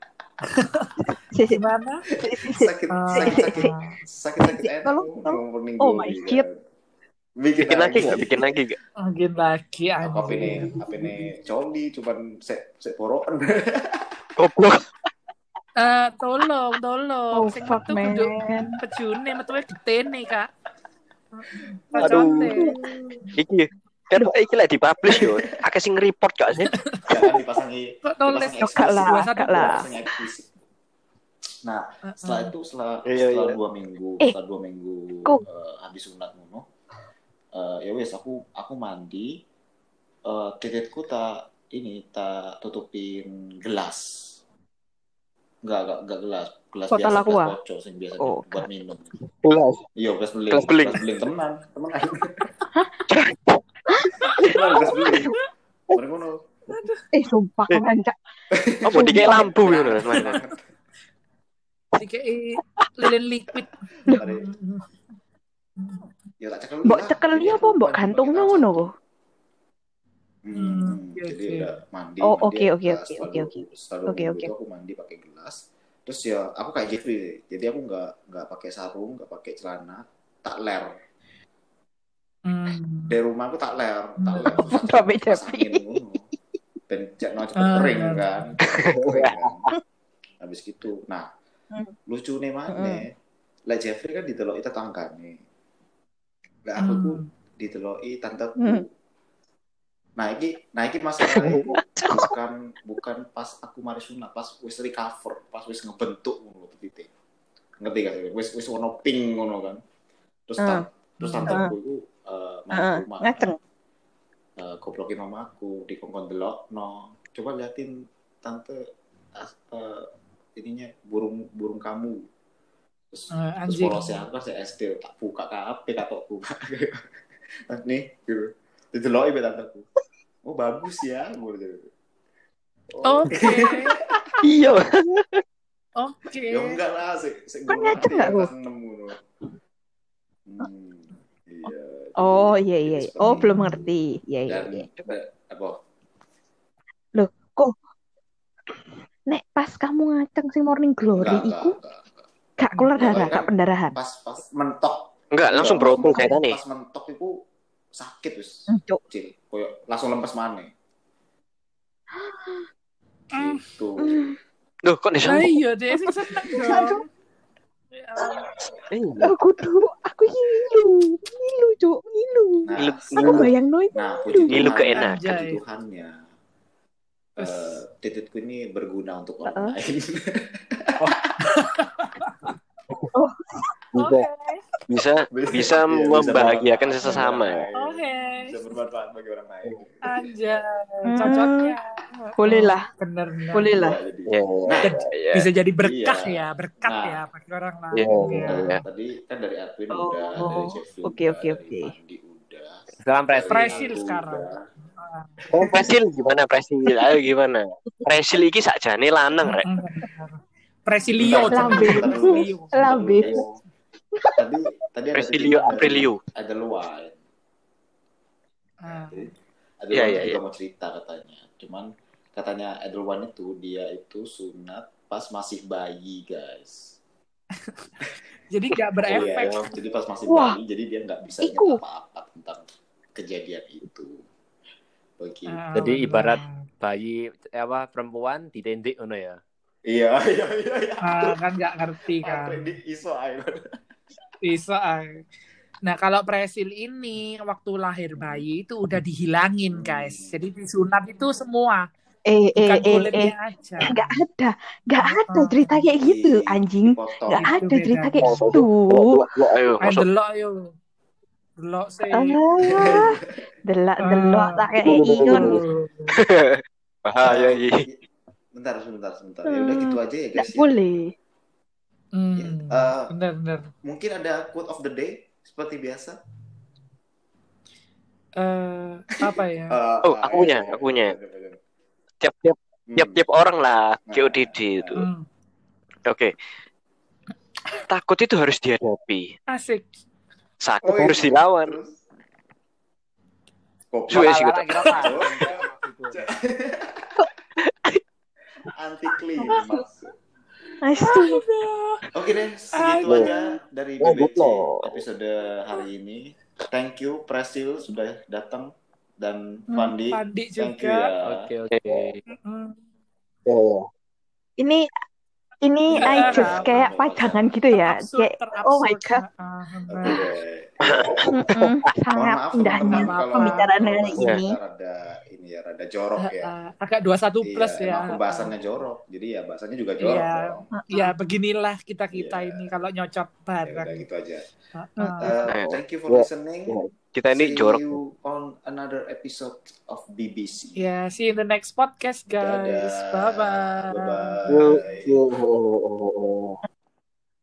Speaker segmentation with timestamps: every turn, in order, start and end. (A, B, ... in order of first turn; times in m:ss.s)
0:00.4-0:01.0 A
0:01.3-0:01.6 B
0:01.5-0:02.0 A
0:02.2-0:03.7 B
0:02.2-0:06.6 C
0:02.9-0:04.0 A
0:04.4-0:06.4 B
0:07.4-0:08.5 C
0:07.6-0:08.8 D
0:09.0-0:11.3 A
0:10.0-0:14.2 C
0:14.4-0:14.8 D
0:15.8-0:20.5 A
0:17.3-0:18.8 B
0:21.4-0:23.3 A
0:22.0-0:23.2 B
0:22.0-0:22.7 D
0:23.3-0:26.7 D
0:25.0-0:25.6 C
0:26.7-0:27.0 A
0:27.0-0:30.5 C
0:28.0-0:29.9 A
0:28.6-0:29.9 B
0:31.6-0:36.6 C
0:32.0-0:32.5 A
0:33.0-0:33.6 D
0:37.5-0:39.3 C
0:40.2-0:44.4 C
0:45.6-0:49.2 C
0:46.9-0:47.5 B
0:48.2-0:48.7 B
0:49.4-0:49.8 D
0:50.0-0:52.5 C
0:50.5-0:51.0 D
0:52.8-0:53.1 B
0:53.1-0:53.5 D
0:53.9-0:55.3 B
0:54.4-0:55.4 C
0:55.9-0:56.4 C
0:56.7-0:57.0 A
0:57.1-0:58.2 B
0:58.5-1:00.6 C
0:58.8-1:00.4 D
0:58.9-0:59.4 B
1:02.0-1:04.8 A
1:04.0-1:04.5 C
1:05.8-1:06.1 A
1:06.4-1:08.9 C
1:06.8-1:08.9 B
1:10.4-1:21.0 C
1:10.5-1:11.7 A
1:12.2-1:13.5 B
1:14.1-1:14.5 B
1:22.4-1:23.2 A
1:23.1-1:26.2 C
1:24.2-1:24.7 A
1:24.6-1:26.0 B
1:26.9-1:29.7 C
1:27.6-1:28.5 A
1:28.7-1:29.5 D
1:30.4-1:31.3 C
1:32.1-1:33.1 C
1:32.7-1:33.0 B
1:33.7-1:35.4 C
1:36.6-1:38.9 C
1:36.8-1:37.3 A
1:38.6-1:38.8 B
1:40.2-1:47.1 C
1:41.3-1:41.6 D
1:41.4-1:42.3 B
1:47.8-1:49.8 C
1:50.5-1:53.5 C
1:50.6-1:50.8 B
1:51.2-1:51.6 A
1:51.4-1:51.7 B
1:52.7-1:53.6 B
1:54.6-1:58.8 C
1:59.3-2:02.2 C
2:03.1-2:07.0 C
2:03.3-2:04.1 A
2:07.7-2:09.8 C
2:10.4-2:11.9 C
2:12.9-2:14.3 C
2:13.0-2:14.0 A
2:14.4-2:15.4 D
2:16.0-2:16.8 A
2:16.5-2:19.2 C
2:17.7-2:18.5 B
2:20.4-2:23.8 C
2:22.2-2:24.8 B
2:23.2-2:23.8 A
2:24.5-2:25.8 C
2:27.1-2:27.7 B
2:29.3-2:31.7 B
2:31.2-2:32.2 C
2:32.6-2:34.0 B
2:32.9-2:37.4 C
2:35.3-2:36.6 D
2:37.9-2:40.7 C
2:38.7-2:39.0 B
2:42.1-2:42.7 B
2:43.3-2:43.6 A
2:43.3-2:44.3 C
2:44.0-2:44.3 B
2:44.8-2:45.5 D
2:45.2-2:47.0 A
2:46.0-2:47.0 B
2:47.9-2:48.5 A
2:48.2-2:48.7 B
2:48.9-2:49.3 D
2:49.2-2:54.8 B
2:52.6-2:56.2 C
2:52.8-2:53.5 D
2:54.5-2:55.2 D
2:55.0-2:55.6 A
2:57.4-2:57.8 A
2:57.4-3:01.4 C
2:59.4-2:59.7 B
3:01.4-3:02.5 A
3:03.1-3:03.7 B
3:03.9-3:04.2 D
3:04.0-3:04.6 A
3:04.9-3:07.6 D
3:05.3-3:10.2 C
3:07.8-3:08.6 A
3:10.0-3:13.7 A
3:11.0-3:11.8 B
3:12.4-3:12.8 B
3:13.5-3:14.0 B
3:13.6-3:15.0 C
3:14.3-3:15.4 D
3:14.8-3:18.8 A
3:15.8-3:17.2 C
3:17.9-3:18.8 D
3:18.4-3:24.6 C
3:19.9-3:21.9 B
3:23.0-3:24.0 E
3:23.5-3:25.4 A
3:25.5-3:25.9 C
3:25.5-3:29.6 D
3:29.4-3:33.0 A
3:31.2-3:33.5 C
3:31.2-3:33.4 B
3:34.2-3:34.4 B
3:34.4-3:37.2 C
3:35.1-3:36.2 D
3:38.8-3:39.2 A
3:38.8-3:46.9 C
3:39.9-3:40.4 D
3:48.5-3:49.6 A
3:49.1-3:54.2 C
3:50.3-3:50.6 B
3:51.4-3:51.8 B
3:55.2-3:55.6 C
3:55.5-3:56.6 A
3:55.7-3:59.4 E
3:59.9-4:01.4 C
4:01.0-4:02.8 A
4:02.2-4:03.7 C
4:04.4-4:05.2 A
4:05.8-4:11.9 A
4:08.2-4:08.4 C
4:09.7-4:10.4 C
4:12.2-4:19.3 B
4:12.6-4:14.2 A
4:15.0-4:15.8 A
4:16.0-4:17.6 C
4:17.3-4:18.6 A
4:18.2-4:20.0 D
4:19.8-4:20.7 A
4:21.6-4:22.4 A
4:22.1-4:25.6 B
4:22.7-4:23.4 C
4:24.0-4:24.7 A
4:24.8-4:27.8 D
4:25.2-4:26.2 A
4:27.2-4:30.7 C
4:29.5-4:31.1 B
4:32.1-4:33.7 A
4:32.4-4:33.1 C
4:33.8-4:36.2 C
4:38.4-4:39.8 A
4:39.1-4:41.6 C
4:40.0-4:41.1 D
4:42.2-4:44.9 D
4:42.9-4:43.2 C
4:44.1-4:45.1 C
4:45.0-4:45.2 A
4:46.1-4:46.3 D
4:47.9-4:49.3 D
4:49.5-4:49.8 A
4:50.6-4:51.8 D
4:50.8-4:52.0 C
4:53.9-4:57.3 C
4:54.1-4:54.7 D
4:54.1-4:56.3 E
4:58.7-5:00.1 C
4:59.4-4:59.8 B
5:00.8-5:01.4 B
5:01.0-5:02.0 A
5:02.1-5:11.5 C
5:02.7-5:03.6 A
5:04.0-5:04.9 D
5:09.7-5:11.1 A
5:11.2-5:12.2 E
5:11.7-5:12.1 D
5:12.3-5:12.8 A
5:13.4-5:13.8 D
5:14.6-5:14.9 B
5:15.6-5:19.2 B
5:15.9-5:17.5 C
5:15.9-5:16.9 A
5:17.7-5:20.3 A
5:19.9-5:21.3 C
5:20.8-5:21.7 D
5:21.3-5:24.6 B
5:22.1-5:26.5 C
5:22.7-5:23.7 A
5:26.2-5:28.5 A
5:27.4-5:30.7 C
5:30.0-5:34.0 A
5:30.7-5:31.1 B
5:32.1-5:32.6 C
5:33.6-5:34.5 C
5:34.7-5:35.4 A
5:35.0-5:35.3 B
5:35.2-5:36.8 C
5:35.5-5:37.8 D
5:37.3-5:40.8 C
5:40.8-5:44.4 A
5:42.4-5:45.2 C
5:44.5-5:46.6 D